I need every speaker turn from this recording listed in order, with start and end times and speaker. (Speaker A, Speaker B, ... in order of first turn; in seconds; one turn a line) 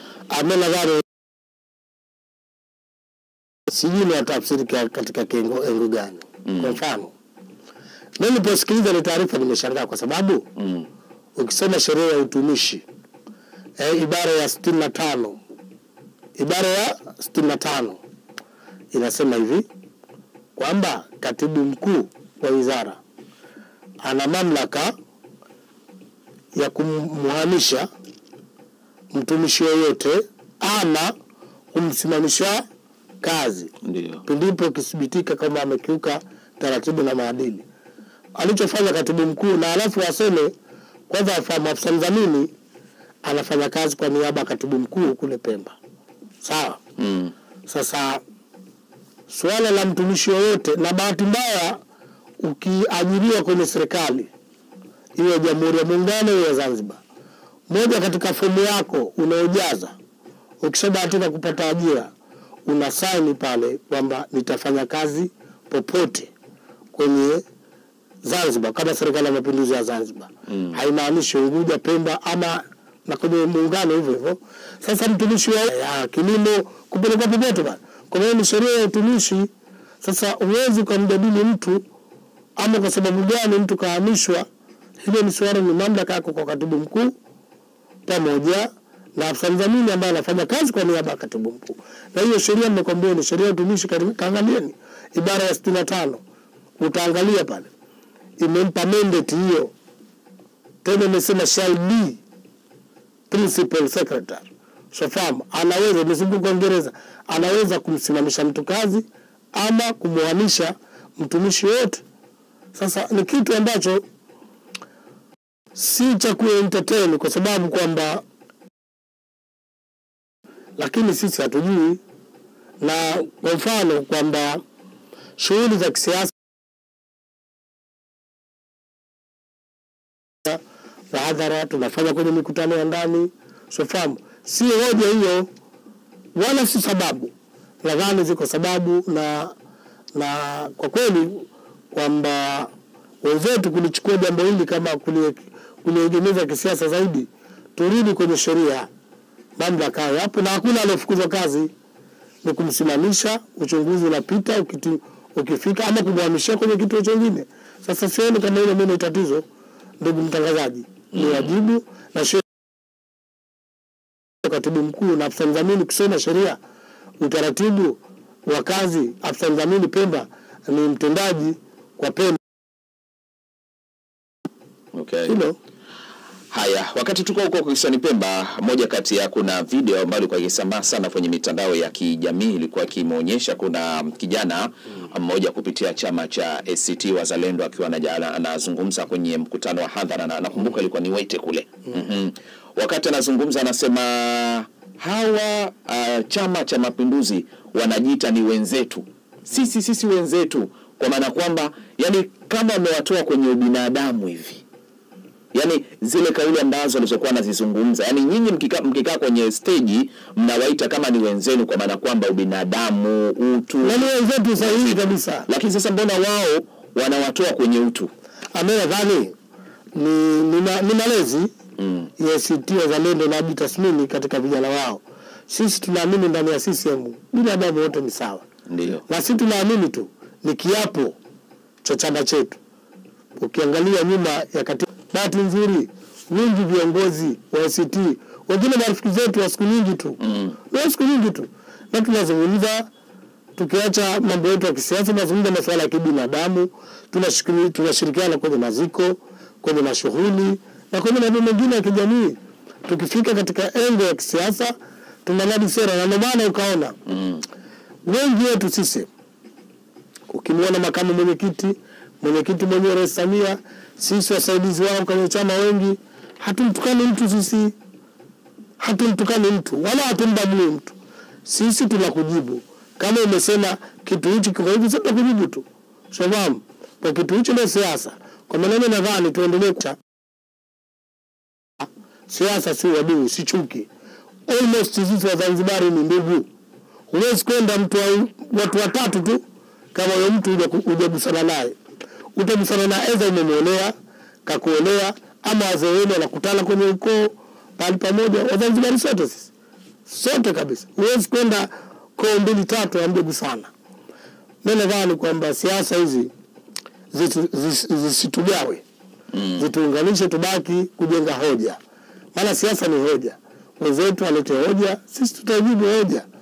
Speaker A: 0.3-1.0
Speaker A: 3.7-7.1
Speaker B: 6.4-6.8
Speaker A: 8.2-10.4
Speaker B: 10.6-10.9
Speaker A: 11.3-12.8
Speaker A: 13.8-15.4
Speaker A: 16.4-18.0
Speaker A: 18.9-19.6
Speaker A: 20.6-23.0
Speaker A: 24.0-24.9
Speaker A: 26.5-27.9
Speaker A: 29.1-31.1
Speaker A: 31.7-32.6
Speaker A: 33.2-33.7
Speaker B: 33.8-34.2
Speaker A: 34.2-37.6
Speaker A: 38.4-40.5
Speaker A: 41.1-42.5
Speaker A: 43.2-45.8
Speaker A: 46.4-46.8
Speaker B: 47.0-47.3
Speaker A: 47.7-48.2
Speaker A: 49.3-51.8
Speaker A: 52.4-54.3
Speaker A: 55.1-57.0
Speaker A: 57.7-59.9
Speaker A: 60.6-62.1
Speaker A: 62.6-66.3
Speaker A: 66.9-67.4
Speaker A: 68.2-79.5
Speaker A: 80.0-81.8
Speaker A: 82.6-84.4
Speaker A: 85.0-87.1
Speaker A: 88.0-96.2
Speaker A: 96.8-97.7
Speaker A: 98.4-99.7
Speaker A: 100.8-102.2
Speaker A: 103.3-112.0
Speaker A: 112.7-114.0
Speaker A: 115.7-118.2
Speaker A: 120.8-122.0
Speaker A: 122.8-124.6
Speaker A: 125.4-126.3
Speaker A: 130.4-135.5
Speaker A: 136.3-139.5
Speaker A: 140.1-148.9
Speaker A: 149.6-151.7
Speaker A: 152.4-159.4
Speaker A: 160.0-162.4
Speaker B: 161.1-161.5
Speaker A: 164.4-166.6
Speaker A: 167.2-172.4
Speaker B: 174.9-175.3
Speaker A: 175.2-175.6
Speaker B: 176.5-204.6
Speaker B: 205.5-218.1
Speaker A: 213.8-215.5
Speaker A: 218.5-219.3
Speaker A: 219.9-221.5
Speaker B: 221.8-222.1
Speaker A: 222.2-228.4
Speaker B: 228.7-229.0
Speaker A: 229.1-231.2
Speaker A: 231.8-232.6
Speaker A: 233.4-240.2
Speaker B: 240.2-240.5
Speaker A: 240.7-242.9
Speaker A: 243.6-256.9
Speaker A: 258.0-259.1
Speaker A: 260.3-267.8
Speaker A: 268.8-279.9
Speaker A: 281.8-283.9
Speaker A: 284.5-286.4
Speaker A: 287.1-289.4
Speaker A: 289.9-291.7
Speaker A: 292.4-293.9
Speaker A: 294.4-299.5
Speaker A: 300.1-303.7
Speaker A: 304.6-306.3
Speaker A: 307.1-308.8
Speaker B: 309.3-309.6
Speaker A: 309.5-311.8
Speaker A: 312.3-316.3